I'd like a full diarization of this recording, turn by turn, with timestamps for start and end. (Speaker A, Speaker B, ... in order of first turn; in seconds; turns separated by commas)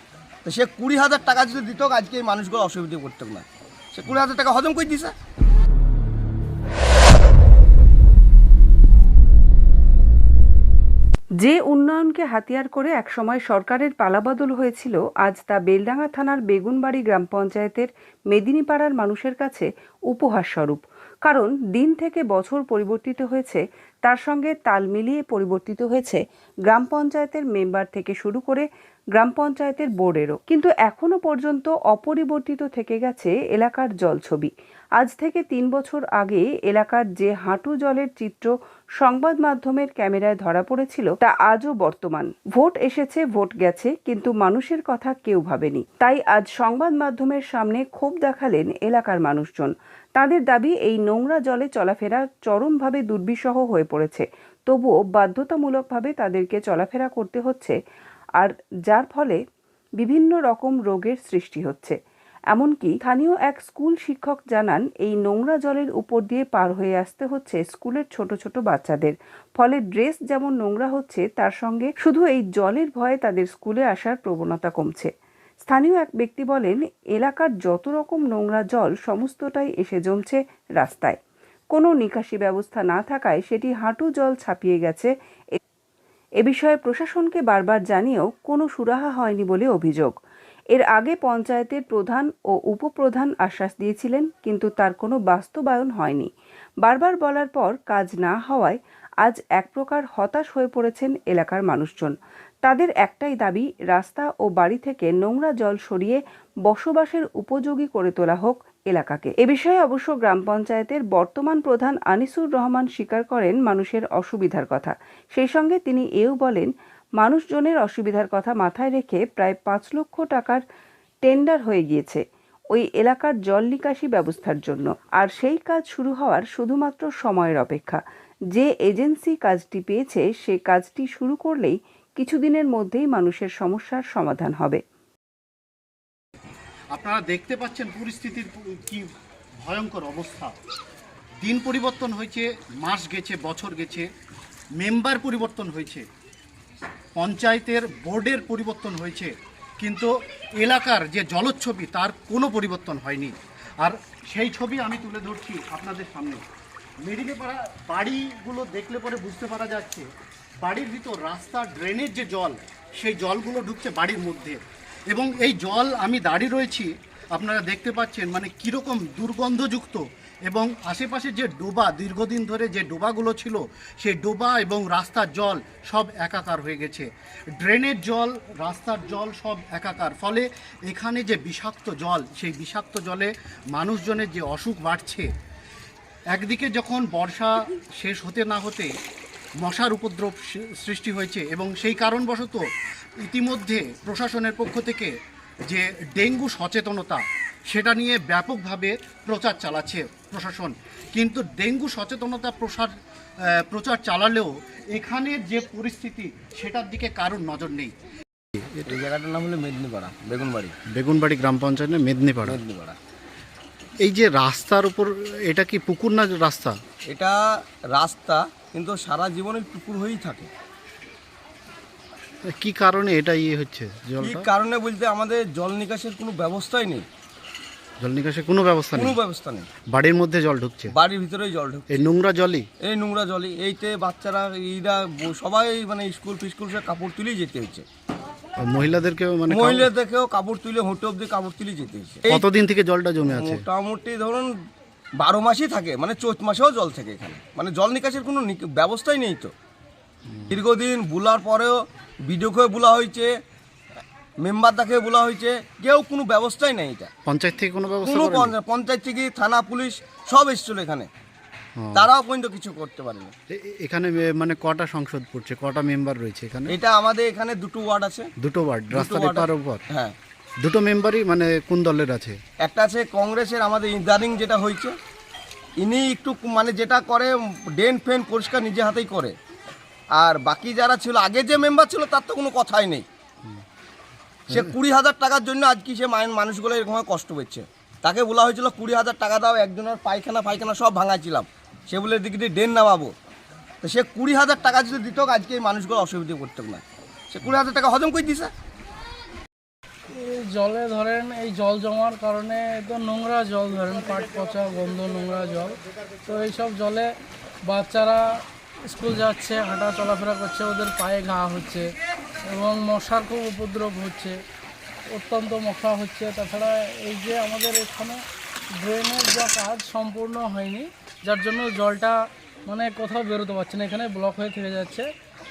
Speaker A: 0.4-5.1, Speaker B: 11.4-57.8, Speaker B: 58.4-59.4, Speaker B: 60.0-62.0, Speaker B: 62.5-75.1, Speaker B: 75.7-81.2, Speaker B: 81.7-85.1, Speaker B: 86.4-90.1, Speaker B: 90.7-96.3, Speaker B: 96.8-102.1, Speaker B: 102.7-120.6, Speaker B: 121.2-122.2, Speaker B: 122.7-128.0, Speaker B: 128.5-134.8, Speaker C: 136.9-139.1, Speaker C: 139.6-140.5, Speaker C: 141.4-144.1, Speaker C: 144.8-146.1, Speaker C: 147.2-156.4, Speaker C: 157.1-160.1, Speaker C: 160.6-185.3, Speaker C: 186.3-188.9, Speaker C: 189.6-192.6, Speaker C: 193.2-195.1, Speaker C: 195.7-202.9, Speaker C: 203.5-207.9, Speaker C: 208.6-209.0, Speaker A: 208.9-210.8, Speaker C: 211.0-212.6, Speaker A: 212.5-213.0, Speaker C: 214.0-216.8, Speaker A: 217.1-217.4, Speaker A: 217.9-220.5, Speaker C: 222.5-224.5, Speaker A: 224.2-227.1, Speaker C: 228.0-229.2, Speaker A: 228.9-229.7, Speaker C: 229.9-230.9, Speaker A: 230.9-231.9, Speaker C: 231.9-232.7, Speaker A: 232.8-237.8, Speaker C: 238.7-239.9, Speaker A: 239.5-242.4, Speaker C: 242.3-243.7, Speaker A: 243.3-244.5, Speaker A: 245.2-249.5, Speaker C: 250.3-250.6, Speaker A: 250.5-253.3, Speaker A: 254.4-257.1, Speaker C: 257.3-258.6, Speaker A: 258.0-261.1, Speaker C: 261.8-262.1, Speaker A: 261.9-263.3, Speaker C: 263.5-266.8, Speaker A: 266.7-268.3, Speaker C: 268.4-269.8, Speaker A: 268.9-270.2, Speaker C: 270.6-272.4, Speaker A: 272.6-274.9, Speaker A: 275.8-279.4, Speaker A: 280.2-283.1, Speaker C: 284.5-284.8, Speaker A: 284.5-293.1, Speaker A: 293.8-298.5, Speaker D: 300.1-307.1, Speaker D: 307.7-308.2, Speaker D: 308.9-311.9, Speaker D: 312.5-314.4, Speaker D: 315.1-318.2, Speaker D: 318.8-325.1